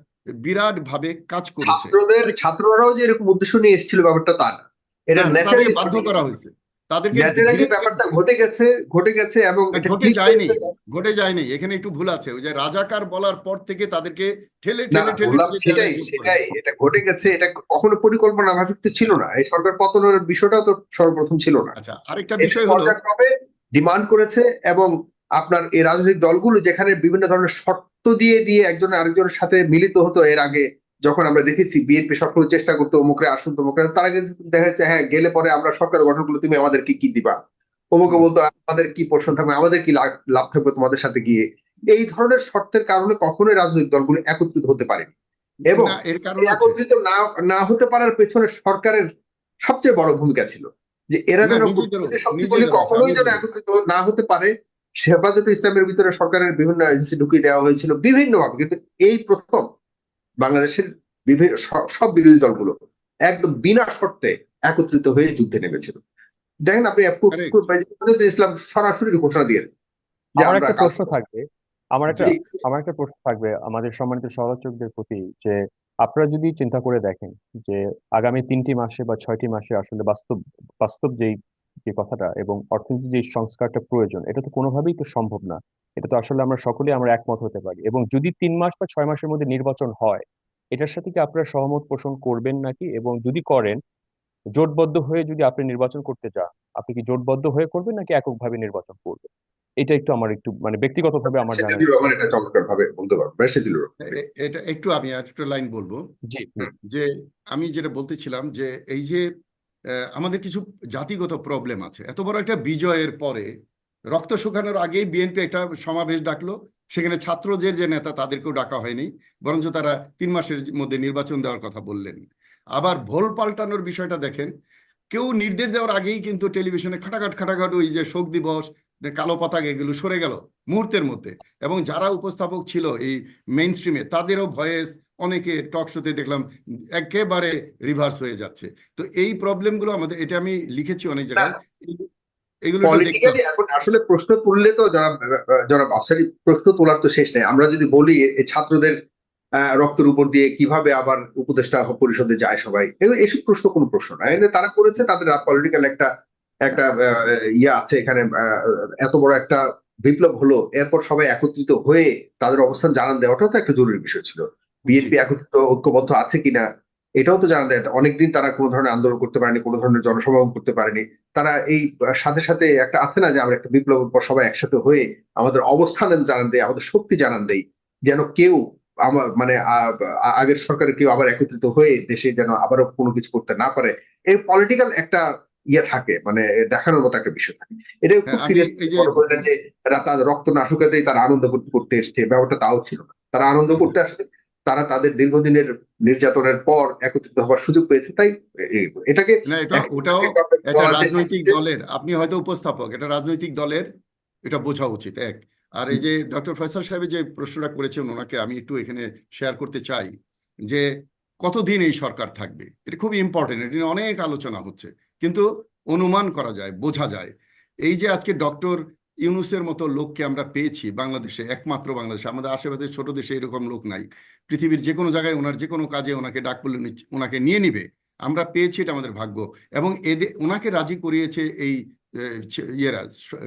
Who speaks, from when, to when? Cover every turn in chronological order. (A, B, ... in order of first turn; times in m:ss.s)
0:00.4-0:01.9 A
0:01.6-0:06.2 B
0:05.2-0:08.1 A
0:07.1-0:10.7 B
0:09.7-0:16.4 A
0:14.9-0:21.7 B
0:21.8-0:22.9 A
0:22.4-0:37.3 B
0:37.9-0:45.1 B
0:45.7-0:46.8 A
0:45.7-0:49.0 B
0:49.6-0:54.5 B
0:51.4-0:53.4 A
0:55.0-0:59.6 B
1:00.4-1:02.7 B
1:03.3-1:06.0 B
1:06.7-1:09.7 B
1:07.3-1:07.6 A
1:10.4-1:11.1 B
1:10.4-1:11.4 C
1:12.0-1:21.4 C
1:12.2-1:12.4 B
1:21.9-1:33.8 C
1:34.6-1:39.3 C
1:39.8-1:42.2 C
1:41.3-1:44.2 B
1:44.0-1:46.0 A
1:46.3-1:46.7 C
1:46.9-1:49.2 A
1:50.1-1:53.5 A
1:54.1-2:02.2 A
2:02.7-2:04.5 A
2:05.1-2:16.4 A
2:17.0-2:22.1 A
2:22.6-2:23.4 A
2:22.8-2:28.9 B
2:29.8-2:36.1 B
2:36.6-2:46.6 B
2:47.2-3:05.2 B
3:05.7-3:21.6 B
3:08.3-3:09.4 A
3:19.5-3:23.8 A
3:24.4-3:30.1 A
3:31.4-3:37.3 A
3:37.8-3:53.1 A